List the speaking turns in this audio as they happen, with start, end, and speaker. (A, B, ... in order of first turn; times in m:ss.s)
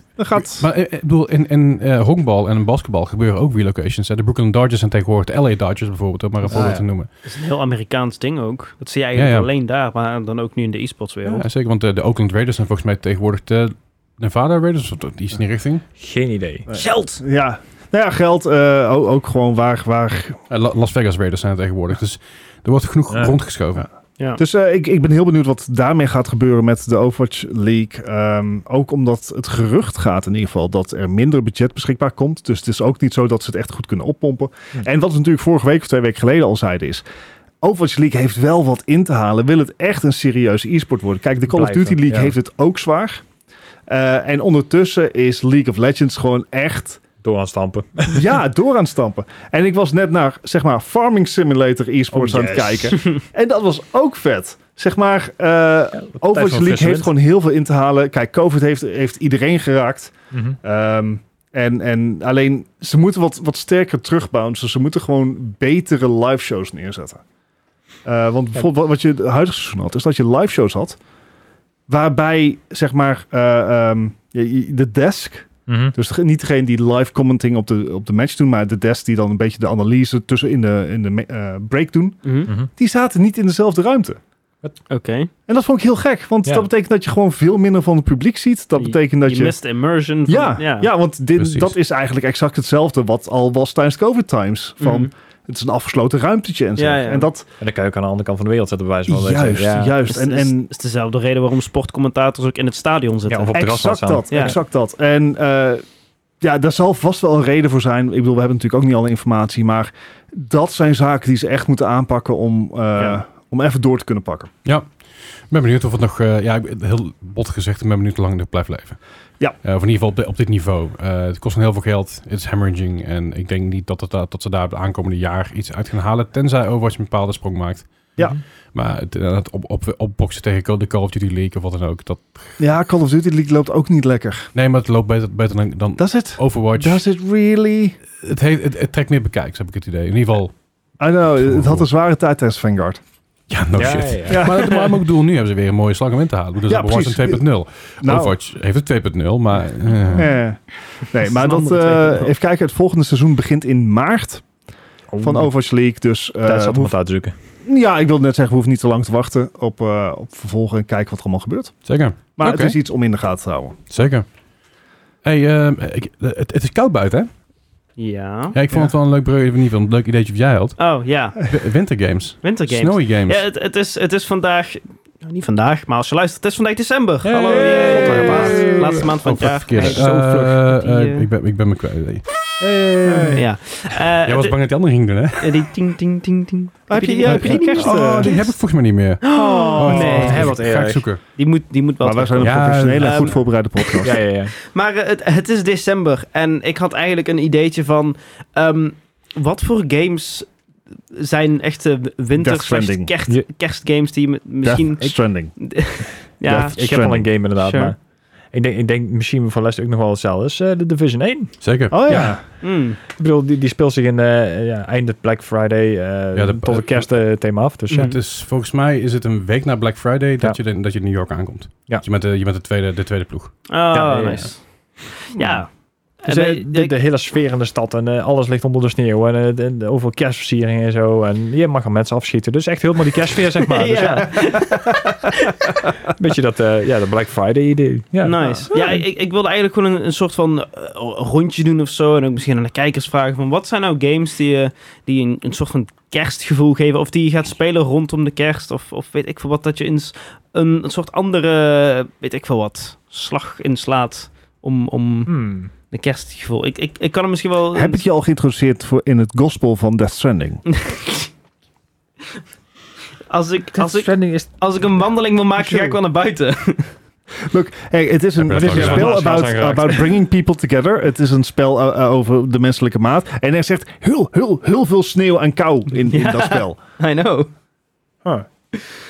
0:00.2-0:00.7 A
0:00.4-0:07.1 B
0:06.5-0:06.8 C
0:07.2-0:11.4 D
0:09.2-0:09.5 B
0:11.3-0:15.8 B
0:16.0-0:16.7 C
0:16.7-0:20.4 A
0:16.7-0:17.2 D
0:20.5-0:23.9 B
0:23.1-0:23.4 C
0:24.4-0:37.0 A
0:37.6-0:43.2 A
0:41.5-0:42.3 C
0:43.9-0:47.0 A
0:47.2-0:48.3 C
0:48.1-1:07.2 A
0:52.1-0:53.0 C
0:56.2-0:57.1 C
1:00.3-1:00.6 C
1:08.0-1:11.0 A
1:11.9-1:24.2 A
1:15.7-1:16.0 C
1:22.2-1:22.5 D
1:24.9-1:25.3 D
1:25.5-1:29.6 A
1:28.8-1:30.9 D
1:30.3-1:37.5 A
1:31.4-1:31.8 B
1:34.8-1:35.1 D
1:36.8-1:37.3 D
1:37.6-1:40.0 C
1:39.1-1:40.7 A
1:40.1-1:43.6 D
1:43.3-1:44.6 C
1:43.6-1:45.8 A
1:46.4-1:54.5 A
1:54.6-1:55.0 B
1:55.5-1:59.0 B
1:59.6-2:07.9 B
2:08.7-2:12.6 B
2:12.6-2:14.5 A
2:14.5-2:17.0 B
2:16.0-2:18.0 A
2:18.2-2:20.5 B
2:21.0-2:23.0 A
2:21.4-2:21.9 B
2:23.5-2:30.3 B
2:23.8-2:24.5 C
2:24.3-2:24.9 A
2:26.7-2:27.4 A
2:28.0-2:28.4 A
2:30.1-2:34.4 A
2:31.2-2:32.3 D
2:35.1-2:35.5 C
2:35.2-2:37.0 A
2:36.4-2:37.4 C
2:37.6-2:41.8 A
2:41.8-2:42.8 B
2:42.4-2:43.8 A
2:43.9-2:44.3 B
2:45.2-2:47.3 B
2:48.0-2:48.6 D
2:48.5-2:50.8 B
2:50.8-2:51.5 D
2:51.4-2:53.4 B
2:52.4-3:01.3 D
2:57.3-2:59.1 C
2:57.9-2:58.7 A
2:58.0-3:02.6 B
2:59.7-3:00.6 C
3:02.6-3:03.4 C
3:03.0-3:03.4 A
3:03.3-3:04.6 D
3:04.2-3:05.7 B
3:05.4-3:08.6 D
3:06.9-3:08.3 A
3:07.2-3:11.2 B
3:09.2-3:10.6 D
3:09.3-3:10.4 A
3:10.2-3:11.1 C
3:11.4-3:20.5 D
3:12.0-3:14.2 A
3:12.4-3:13.4 B
3:14.0-3:14.5 C
3:21.1-3:27.0 D
3:22.4-3:23.1 A
3:24.6-3:25.6 A
3:26.4-3:27.3 A
3:26.5-3:28.0 C
3:27.6-3:27.9 D
3:28.5-3:32.4 C
3:31.6-3:32.3 B
3:31.9-3:32.4 A
3:32.6-3:33.0 D
3:33.1-3:38.2 C
3:36.3-3:37.1 B
3:37.9-3:38.2 D
3:37.9-3:43.7 B
3:43.7-3:45.7 D
3:43.9-3:44.5 C
3:46.2-3:46.9 D
3:46.3-3:55.0 C
3:53.7-3:55.7 D
3:56.0-3:58.6 C
3:58.2-4:15.4 D
3:58.4-3:58.9 A
4:15.3-4:15.7 C
4:15.9-4:18.0 D
4:17.7-4:20.6 A
4:20.7-4:21.3 D
4:23.3-4:26.9 D
4:23.8-4:24.5 C
4:25.7-4:26.0 C
4:27.5-4:36.8 A
4:28.4-4:29.2 B
4:28.5-4:30.1 C
4:36.1-4:37.5 D